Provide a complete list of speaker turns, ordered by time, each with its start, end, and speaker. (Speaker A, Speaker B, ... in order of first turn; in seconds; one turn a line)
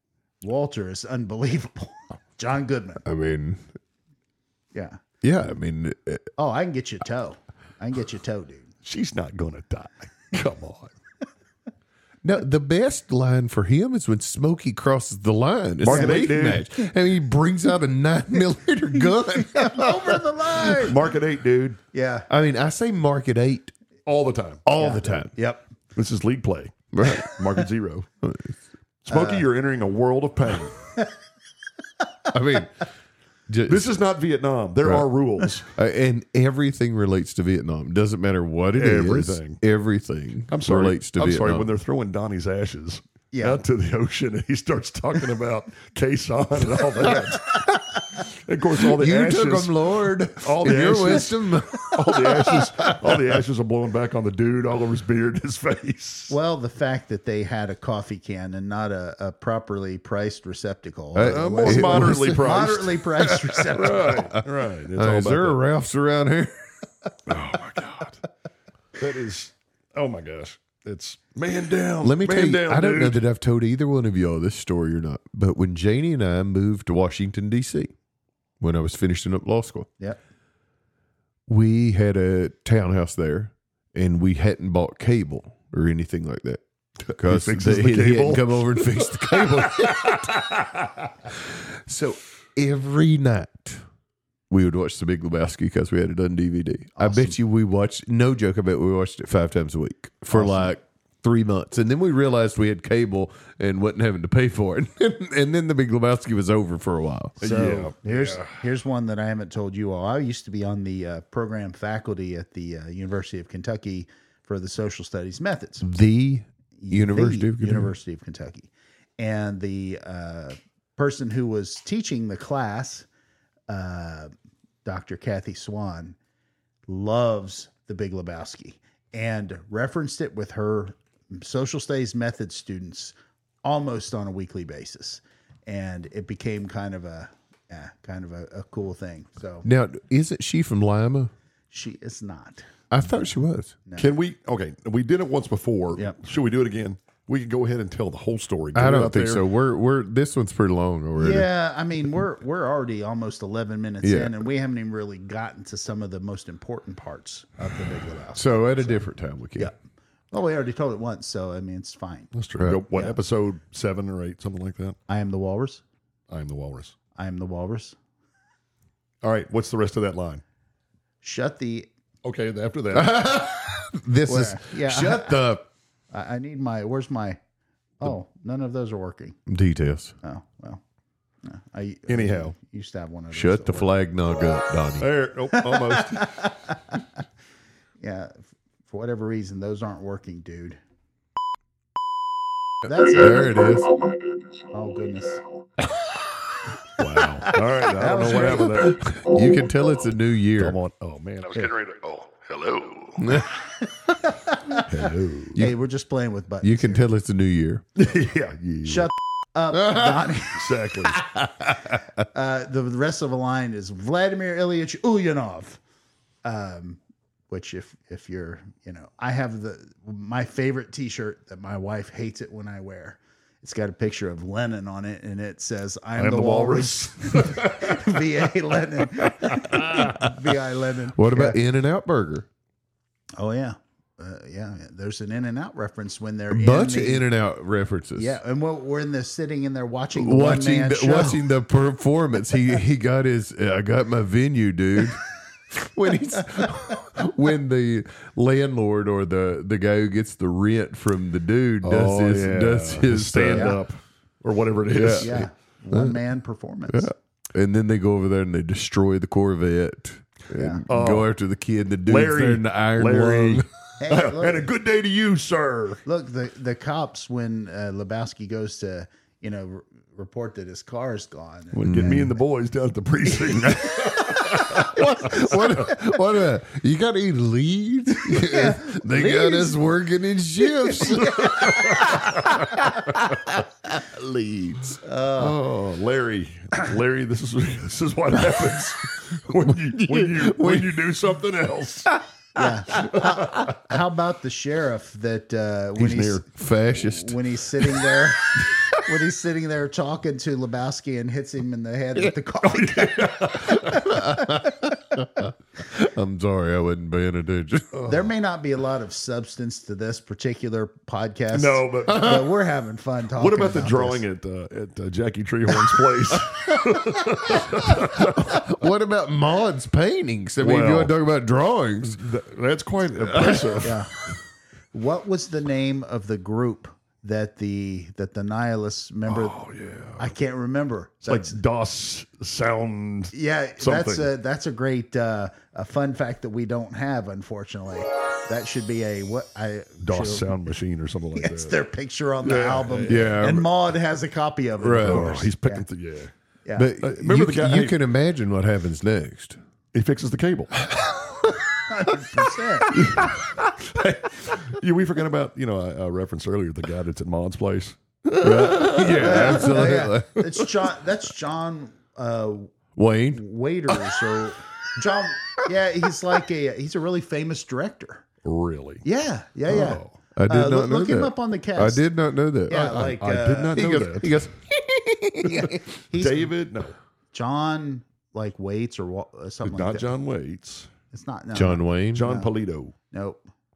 Speaker A: 0.4-3.0
Speaker B: 3.0-3.6
Speaker B: 5.2-6.3
Speaker A: 6.4-8.7
Speaker C: 8.8-10.9
Speaker B: 12.2-20.2
Speaker C: 15.8-16.6
Speaker A: 15.8-16.5
Speaker A: 19.1-21.0
Speaker C: 20.9-21.8
Speaker A: 21.9-22.3
Speaker B: 22.3-23.7
Speaker C: 24.1-24.6
Speaker B: 24.6-25.3
Speaker A: 24.8-25.6
Speaker C: 25.9-28.1
Speaker B: 26.9-27.4
Speaker B: 28.2-28.6
Speaker C: 29.0-30.8
Speaker A: 29.1-29.5
Speaker B: 32.3-32.9
Speaker B: 33.5-33.9
Speaker C: 33.7-35.7
Speaker B: 35.8-41.7
Speaker C: 38.8-39.6
Speaker C: 40.5-47.6
Speaker A: 43.3-43.6
Speaker A: 47.1-47.4
Speaker C: 48.1-49.8
Speaker B: 48.9-53.2
Speaker C: 50.4-56.4
Speaker A: 56.3-64.3
Speaker B: 61.1-62.5
Speaker C: 61.2-63.0
Speaker B: 63.2-66.5
Speaker C: 63.7-65.6
Speaker C: 67.3-68.2
Speaker C: 69.0-73.2
Speaker B: 72.0-77.9
Speaker B: 78.6-79.9
Speaker B: 81.5-90.3
Speaker C: 87.1-90.9
Speaker B: 91.3-93.8
Speaker B: 94.5-107.4
Speaker A: 97.0-97.4
Speaker A: 100.3-100.8
Speaker C: 107.4-108.5
Speaker A: 107.4-115.8
Speaker B: 115.8-117.9
Speaker A: 116.8-123.1
Speaker A: 123.7-124.3
Speaker A: 124.8-126.2
Speaker A: 126.9-139.7
Speaker B: 139.6-141.3
Speaker A: 141.7-143.3
Speaker B: 142.9-143.8
Speaker A: 143.9-144.1
Speaker C: 144.0-149.4
Speaker B: 148.8-151.5
Speaker A: 151.2-159.0
Speaker B: 154.0-154.3
Speaker B: 158.3-159.7
Speaker A: 160.3-162.3
Speaker C: 162.3-165.0
Speaker B: 162.6-162.8
Speaker A: 162.9-163.2
Speaker A: 165.1-165.8
Speaker C: 166.3-166.9
Speaker A: 167.2-168.0
Speaker C: 169.2-170.4
Speaker A: 171.2-171.9
Speaker C: 172.2-173.3
Speaker B: 172.9-175.6
Speaker A: 174.3-175.5
Speaker A: 176.1-177.4
Speaker A: 178.0-179.4
Speaker B: 179.5-180.1
Speaker A: 180.2-180.8
Speaker A: 181.4-184.0
Speaker C: 182.1-182.5
Speaker B: 183.3-185.1
Speaker C: 185.0-186.3
Speaker A: 185.5-187.0
Speaker A: 188.0-190.8
Speaker A: 192.8-193.8
Speaker B: 193.0-194.0
Speaker A: 194.7-195.4
Speaker C: 197.0-199.0
Speaker A: 197.5-199.0
Speaker B: 198.7-200.8
Speaker C: 200.6-203.3
Speaker B: 203.2-203.6
Speaker A: 204.0-204.9
Speaker C: 204.9-205.6
Speaker A: 205.6-207.0
Speaker B: 206.6-207.8
Speaker C: 208.0-209.1
Speaker A: 208.9-210.6
Speaker B: 209.8-210.2
Speaker C: 210.5-211.2
Speaker A: 212.3-215.8
Speaker A: 216.4-231.6
Speaker C: 226.2-228.0
Speaker B: 231.2-232.5
Speaker A: 233.4-237.3
Speaker B: 236.5-238.4
Speaker A: 238.2-241.4
Speaker B: 240.2-253.8
Speaker C: 251.8-255.5
Speaker A: 253.5-253.8
Speaker B: 254.9-256.2
Speaker A: 255.2-257.1
Speaker B: 256.9-263.7
Speaker A: 260.5-260.8
Speaker C: 260.9-261.4
Speaker C: 262.1-266.0
Speaker A: 264.0-264.7
Speaker A: 266.1-272.2
Speaker C: 271.7-274.3
Speaker B: 271.9-272.3
Speaker B: 273.6-285.0
Speaker A: 278.3-279.8
Speaker A: 281.0-281.5
Speaker C: 281.4-282.1
Speaker A: 285.1-285.6
Speaker C: 285.4-292.1
Speaker B: 289.9-291.0
Speaker B: 292.1-293.3
Speaker A: 292.6-304.1
Speaker C: 293.0-293.4
Speaker C: 296.0-296.5
Speaker B: 296.6-297.4
Speaker C: 302.6-304.1
Speaker B: 303.8-307.9
Speaker A: 308.0-314.2
Speaker C: 311.5-312.4
Speaker B: 312.1-312.5
Speaker C: 313.4-318.4
Speaker B: 317.9-322.2
Speaker C: 320.6-321.1
Speaker C: 322.0-323.9
Speaker B: 323.2-324.0
Speaker A: 323.8-324.1
Speaker A: 324.9-329.6
Speaker C: 329.3-330.3
Speaker A: 330.2-331.6
Speaker C: 331.2-334.3
Speaker A: 333.3-340.6
Speaker C: 340.0-341.8
Speaker A: 341.4-345.9
Speaker C: 342.4-343.4
Speaker B: 343.1-343.7
Speaker C: 344.8-346.3
Speaker B: 344.8-345.4
Speaker A: 346.6-346.9
Speaker B: 346.8-349.6
Speaker C: 347.0-348.0
Speaker C: 349.9-350.8
Speaker B: 350.9-351.7
Speaker A: 351.9-353.1
Speaker B: 352.9-354.3
Speaker C: 354.7-359.9
Speaker B: 358.4-360.6
Speaker A: 359.2-362.8
Speaker B: 363.0-363.4
Speaker A: 363.3-368.2
Speaker C: 368.4-369.1
Speaker A: 369.0-372.1
Speaker C: 369.7-370.2
Speaker B: 370.4-373.1
Speaker A: 372.7-374.3
Speaker C: 372.8-374.3
Speaker B: 373.7-375.8
Speaker A: 375.4-376.6
Speaker C: 375.6-377.0
Speaker A: 377.3-380.1
Speaker C: 379.6-380.9
Speaker A: 381.1-382.5
Speaker B: 381.5-382.3
Speaker C: 382.1-382.9
Speaker A: 383.1-383.4